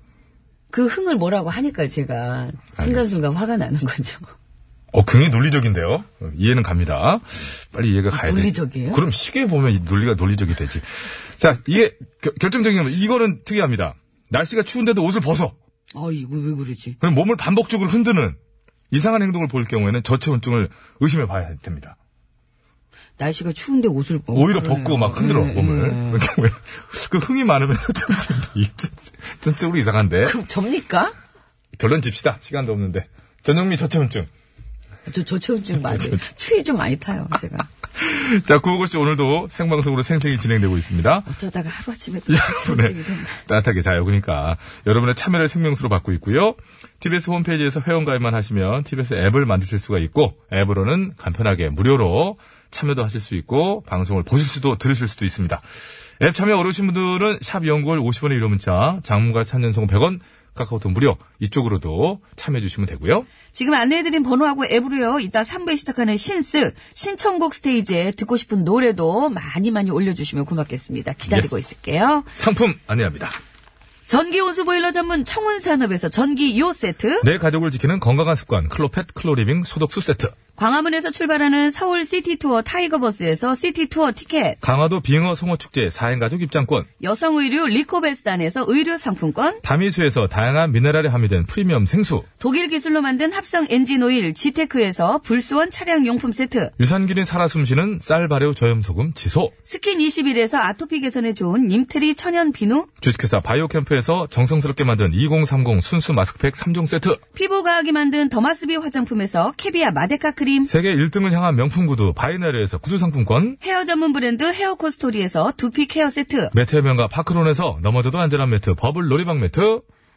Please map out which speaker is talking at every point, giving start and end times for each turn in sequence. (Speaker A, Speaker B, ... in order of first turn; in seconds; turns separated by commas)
Speaker A: 0.7-4.2, Speaker B: 2.8-3.0, Speaker B: 4.9-10.8, Speaker A: 8.1-9.0, Speaker B: 11.4-15.5, Speaker A: 15.9-17.0, Speaker B: 17.0-18.4, Speaker B: 18.9-21.9, Speaker A: 23.2-26.2, Speaker B: 24.3-30.4, Speaker A: 30.2-31.1, Speaker B: 31.8-34.3, Speaker A: 35.1-37.7, Speaker B: 35.8-36.2, Speaker B: 38.0-41.3, Speaker A: 41.3-43.4, Speaker B: 42.3-55.6, Speaker B: 56.2-63.3, Speaker A: 63.5-72.3, Speaker B: 72.3-73.3, Speaker A: 74.1-77.2, Speaker B: 77.2-80.3, Speaker A: 80.6-84.6, Speaker B: 84.6-86.9, Speaker A: 87.0-89.6, Speaker B: 89.6-92.2, Speaker A: 92.4-96.7, Speaker B: 96.8-99.5, Speaker A: 99.7-102.9, Speaker B: 103.0-107.2, Speaker A: 107.3-110.7, Speaker B: 110.7-113.6, Speaker A: 113.6-116.5, Speaker B: 116.5-119.8